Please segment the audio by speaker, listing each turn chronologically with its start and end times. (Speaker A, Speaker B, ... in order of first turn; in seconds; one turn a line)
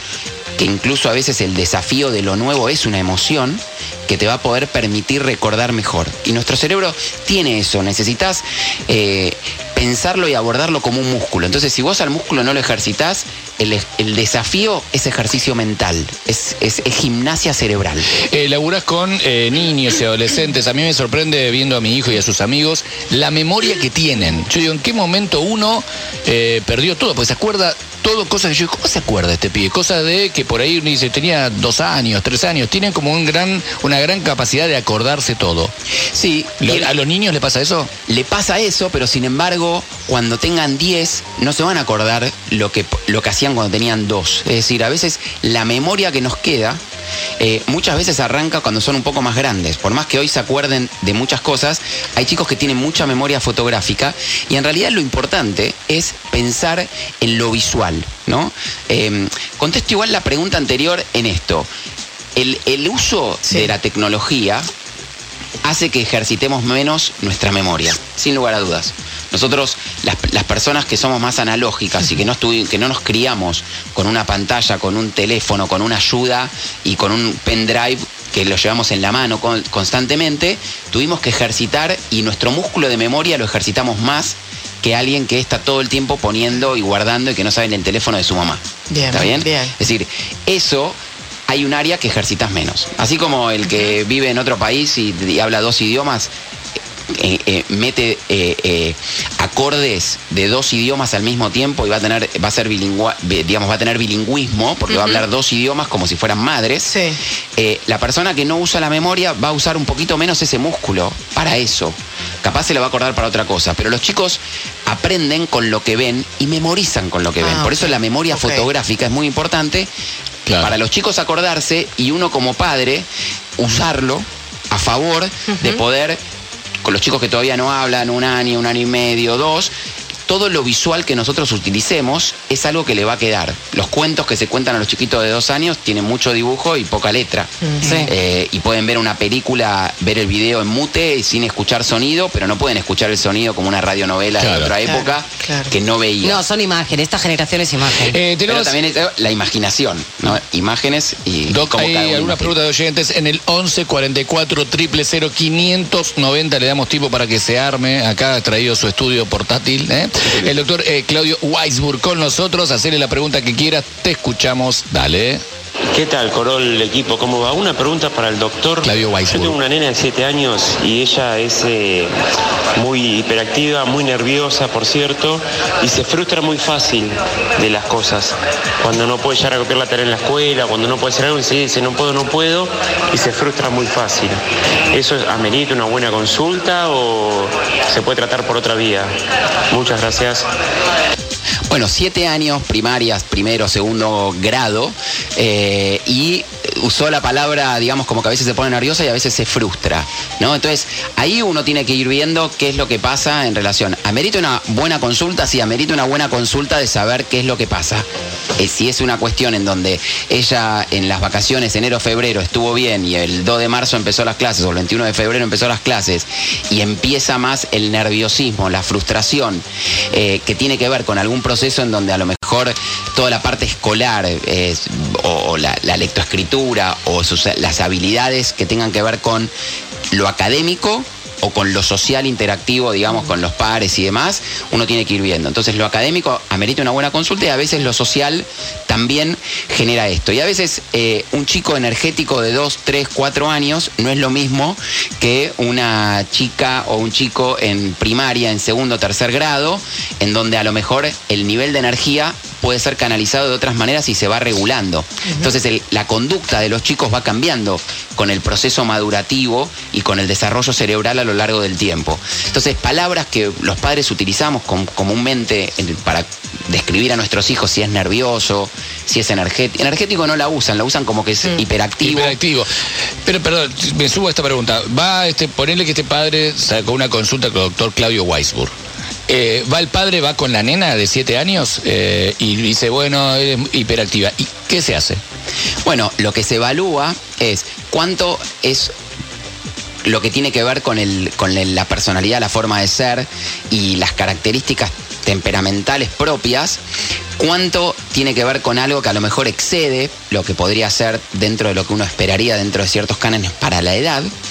Speaker A: 0.6-18.1
Speaker B: 18.2-35.7
Speaker A: 36.1-36.9
Speaker B: 36.6-37.9
Speaker A: 38.1-46.8
Speaker A: 47.4-61.7
Speaker A: 62.4-64.7
Speaker A: 65.6-96.3
Speaker C: 88.9-89.7
Speaker A: 97.1-106.9
Speaker C: 104.9-105.2
Speaker C: 106.9-107.2
Speaker A: 107.6-119.9
Speaker C: 117.4-118.7
Speaker B: 120.5-120.8
Speaker A: 120.6-126.2
Speaker C: 125.5-125.8
Speaker A: 126.8-129.7
Speaker A: 130.3-146.4
Speaker C: 137.7-138.1
Speaker D: 137.8-138.1
Speaker B: 144.4-144.7
Speaker C: 144.9-145.7
Speaker D: 146.2-148.2
Speaker B: 147.9-148.8
Speaker A: 148.5-152.6
Speaker B: 151.5-165.4
Speaker E: 165.9-172.1
Speaker B: 168.8-169.6
Speaker E: 172.8-184.4
Speaker E: 184.9-189.1
Speaker E: 189.7-190.5
Speaker A: 191.7-229.5
Speaker A: 230.1-272.4
Speaker B: 272.0-272.7
Speaker B: 273.2-278.8
Speaker B: 279.3-285.2
Speaker A: 285.8-288.9
Speaker A: 290.0-296.8
Speaker A: 297.4-304.3